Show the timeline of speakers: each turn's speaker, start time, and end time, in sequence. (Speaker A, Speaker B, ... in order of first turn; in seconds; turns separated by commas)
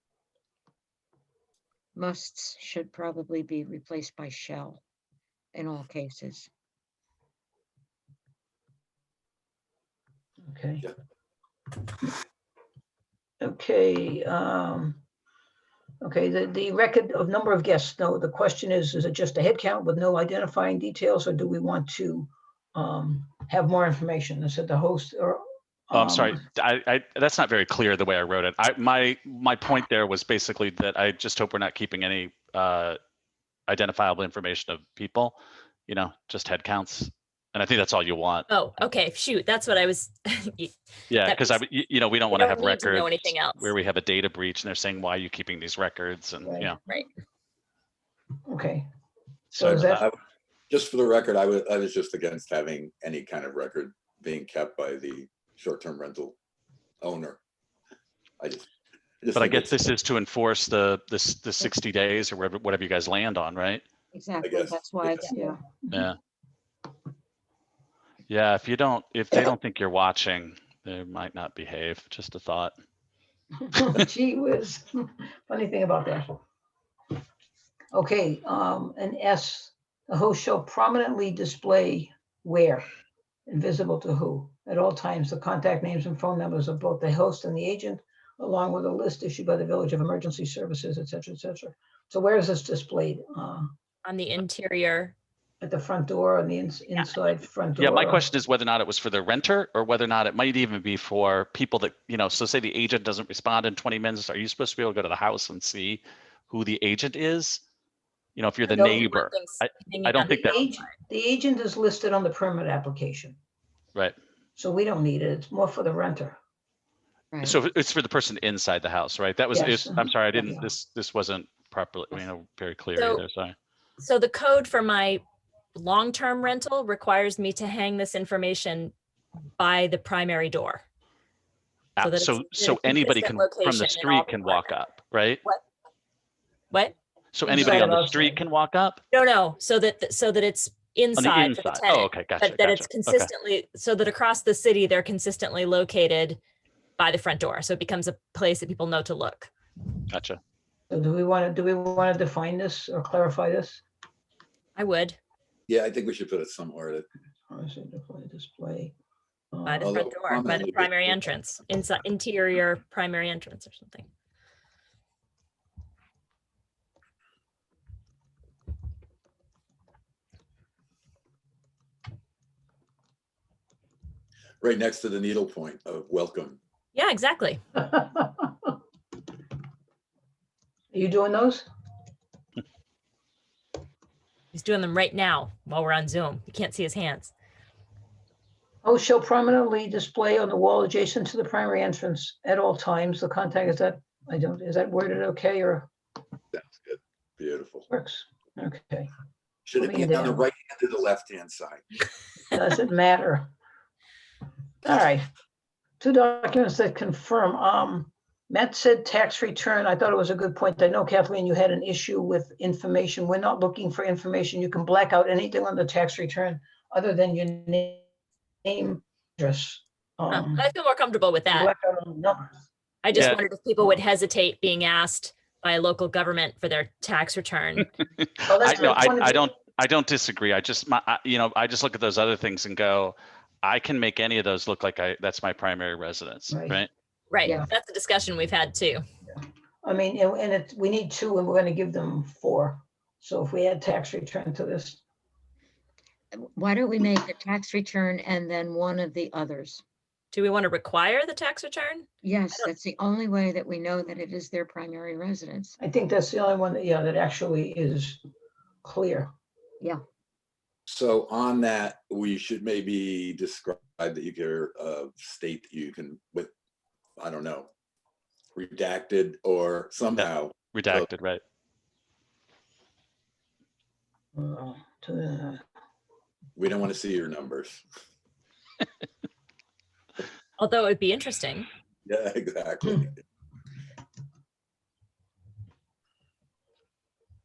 Speaker A: 1.9-4.8, Speaker A: 5.5-6.5, Speaker B: 10.4-10.9, Speaker B: 13.4-15.0, Speaker B: 16.0-26.4, Speaker C: 25.9-33.0, Speaker C: 33.7-38.5, Speaker D: 38.5-41.6, Speaker C: 41.1-46.8, Speaker D: 42.3-43.7, Speaker B: 46.4-46.7, Speaker B: 48.5-48.9, Speaker B: 49.5-50.0, Speaker E: 49.5-56.4, Speaker E: 57.0-57.4, Speaker E: 58.4-58.6, Speaker E: 59.2-59.8, Speaker C: 59.3-63.8, Speaker A: 64.1-65.6, Speaker E: 64.4-65.2, Speaker B: 65.3-66.1, Speaker C: 68.3-72.7, Speaker B: 73.6-76.3, Speaker B: 77.9-82.8, Speaker B: 83.5-93.7, Speaker D: 94.0-95.1, Speaker B: 95.6-98.2, Speaker C: 97.8-107.6, Speaker C: 108.3-110.6, Speaker D: 108.7-110.9, Speaker B: 108.7-109.1, Speaker B: 110.2-113.4, Speaker B: 114.5-116.4, Speaker A: 117.3-117.6, Speaker C: 117.4-123.5, Speaker B: 119.5-120.7, Speaker D: 123.0-123.2, Speaker D: 124.0-125.2, Speaker D: 125.7-128.9, Speaker D: 129.6-130.8, Speaker C: 132.0-135.4, Speaker D: 132.0-134.8, Speaker D: 136.7-136.9, Speaker C: 137.3-139.0, Speaker B: 137.4-138.4, Speaker D: 137.5-137.9, Speaker D: 139.1-146.4, Speaker C: 141.2-143.3, Speaker D: 147.0-149.5, Speaker C: 150.1-150.4, Speaker B: 150.9-153.8, Speaker D: 154.8-155.2, Speaker E: 155.7-157.1, Speaker B: 157.5-158.9, Speaker B: 159.5-159.9, Speaker D: 159.7-164.1, Speaker E: 159.8-161.2, Speaker E: 174.6-176.6, Speaker D: 176.9-177.6, Speaker B: 177.8-178.7, Speaker B: 180.9-181.7, Speaker D: 184.5-187.3, Speaker B: 188.8-195.9, Speaker E: 196.5-197.8, Speaker B: 197.9-199.1, Speaker E: 199.7-201.8, Speaker B: 199.7-200.4, Speaker B: 202.5-203.5, Speaker B: 204.8-205.2, Speaker B: 206.0-218.1, Speaker B: 218.6-220.6, Speaker D: 220.3-221.7, Speaker B: 221.5-222.5, Speaker D: 223.0-227.9, Speaker C: 223.1-223.4, Speaker C: 228.2-236.9, Speaker B: 228.5-229.5, Speaker B: 236.5-236.8, Speaker D: 237.3-239.0, Speaker B: 239.3-245.0, Speaker A: 246.3-249.8, Speaker D: 250.3-252.7, Speaker A: 252.2-255.8, Speaker B: 255.8-258.2, Speaker B: 258.8-259.3, Speaker E: 260.9-266.5, Speaker E: 267.2-267.7, Speaker E: 268.5-271.1, Speaker C: 270.2-271.4, Speaker B: 274.4-275.6, Speaker E: 276.6-277.8, Speaker D: 280.6-281.7, Speaker E: 282.1-283.1